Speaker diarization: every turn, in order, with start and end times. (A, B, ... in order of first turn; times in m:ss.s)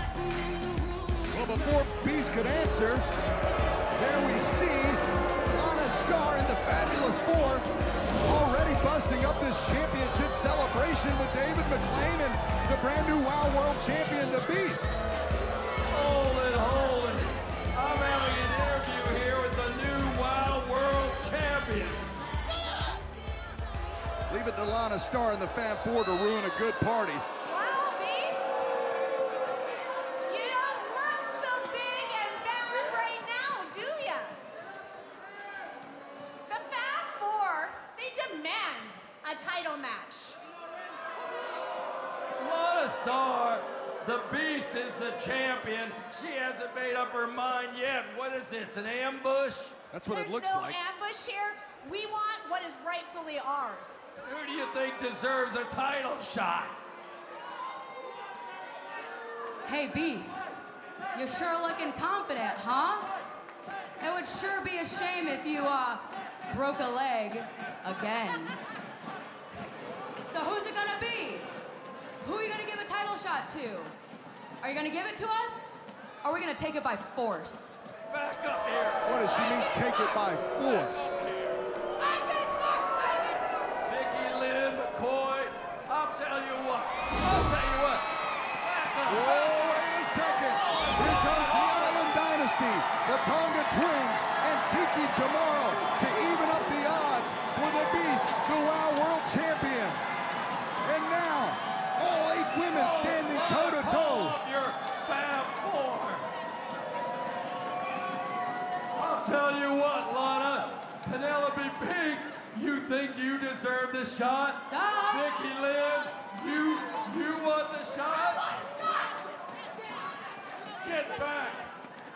0:01.2-0:03.0 A
0:04.0-0:05.0 A
0:05.5-0:07.7 A
0:08.2-0:14.9 A
0:15.9-0:22.0 B
0:24.3-0:27.2 A
0:27.4-0:28.7 C
0:30.3-0:34.4 C
0:36.5-0:40.4 C
0:42.4-0:49.8 B
0:49.9-0:50.8 A
0:50.1-0:54.1 C
0:54.2-0:56.8 B
0:59.6-1:00.6 D
1:01.1-1:03.1 D
1:04.0-1:08.6 D
1:10.2-1:11.5 D
1:12.2-1:14.0 D
1:14.6-1:17.8 D
1:18.1-1:19.2 B
1:19.0-1:21.1 A
1:19.3-1:20.2 D
1:22.0-1:23.5 D
1:23.8-1:28.1 B
1:28.6-1:29.8 B
1:29.1-1:40.0 A
1:30.4-1:32.1 B
1:40.8-1:44.4 A
1:42.7-1:46.3 B
1:49.0-1:58.6 B
1:54.7-1:55.2 D
2:00.8-2:01.7 B